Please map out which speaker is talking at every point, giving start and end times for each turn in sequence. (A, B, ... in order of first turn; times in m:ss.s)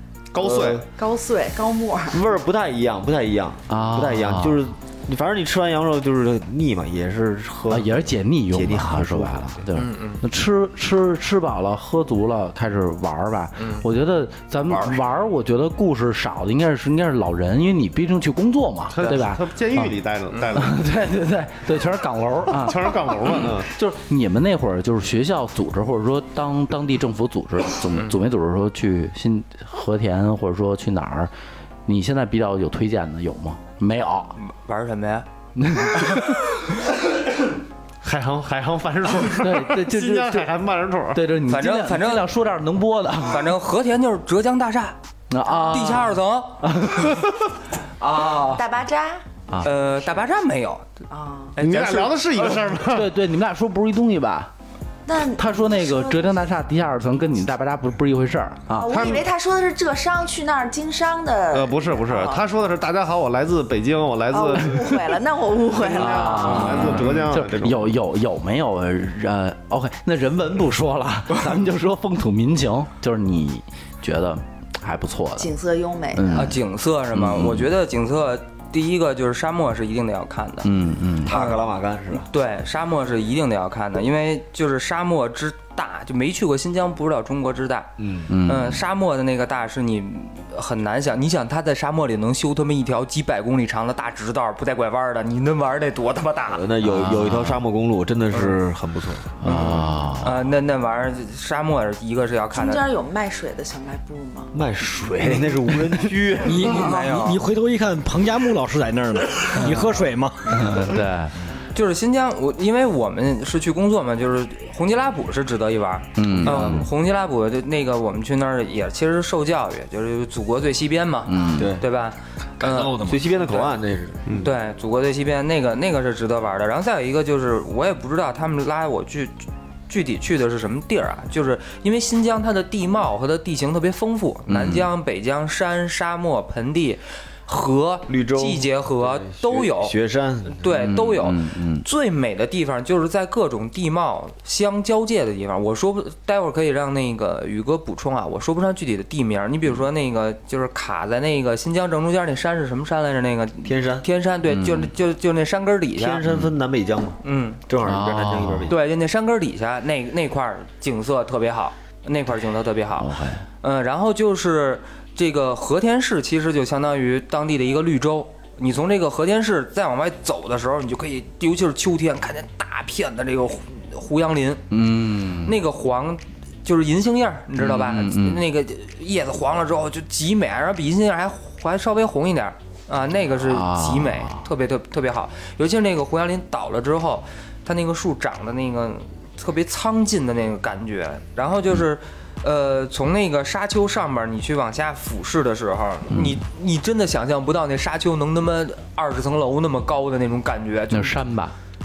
0:00.3-0:00.8 A
0:00.4-0:00.8 B
0:00.8-0:02.3 C
0:02.1-0:09.7 B
0:03.7-0:04.6 D
0:07.7-0:20.0 D
0:09.8-0:10.2 E
0:13.6-0:13.8 E
0:14.6-0:15.0 B
0:18.9-0:20.9 A
0:20.5-0:31.3 D
0:22.5-0:23.7 A
0:27.9-0:28.2 E
0:31.8-0:34.4 D
0:34.4-0:35.3 E
0:35.6-0:36.4 D
0:38.0-0:41.2 A
0:39.3-0:40.6 D
0:41.1-0:43.5 D
0:41.5-0:42.3 E
0:43.2-0:45.0 E
0:45.3-0:47.4 D
0:45.5-0:46.7 E
0:48.0-0:48.6 D
0:48.2-0:49.2 C
0:49.6-0:50.9 E
0:51.1-0:51.6 C
0:51.6-0:52.5 E
0:51.6-0:53.1 A
0:52.8-0:54.5 D
0:55.1-0:56.6 C
0:55.2-0:59.1 D
0:58.7-1:02.4 C
0:58.9-0:59.2 A
1:01.5-1:05.1 A
1:04.3-1:07.1 C
1:05.8-1:15.5 D
1:05.9-1:07.9 A
1:15.4-1:16.5 C
1:16.1-1:17.7 D
1:16.3-1:20.7 E
1:20.6-1:21.4 D
1:21.2-1:22.3 B
1:21.3-1:21.6 E
1:22.1-1:36.7 E
1:28.0-1:28.4 B
1:28.3-1:28.8 D
1:36.5-1:39.8 B
1:36.8-1:37.6 D
1:38.3-1:38.6 E
1:39.4-1:40.5 D
1:39.4-1:42.8 E
1:42.5-1:44.5 C
1:44.5-1:46.8 B
1:46.4-1:50.9 F
1:46.6-1:47.4 E
1:50.5-1:51.4 D
1:51.7-2:03.7 E
1:56.2-1:56.9 D
1:56.4-1:56.8 B
2:01.3-2:01.8 D
2:01.5-2:01.9 B
2:02.6-2:04.5 B
2:02.6-2:03.2 F
2:04.4-2:20.0 E
2:14.5-2:14.9 D
2:18.1-2:20.7 B
2:20.5-2:36.2 E
2:20.7-2:21.8 D
2:33.6-2:34.1 B
2:34.5-2:34.9 D
2:36.0-2:38.8 B
2:36.2-2:36.5 D
2:37.2-2:37.6 E
2:37.8-2:38.8 D
2:38.7-2:54.7 E
2:43.0-2:43.4 D
2:54.7-2:55.6 D
2:55.4-3:21.2 E
2:57.6-2:58.4 D
3:03.4-3:04.4 D
3:16.1-3:16.4 D
3:20.9-3:21.6 D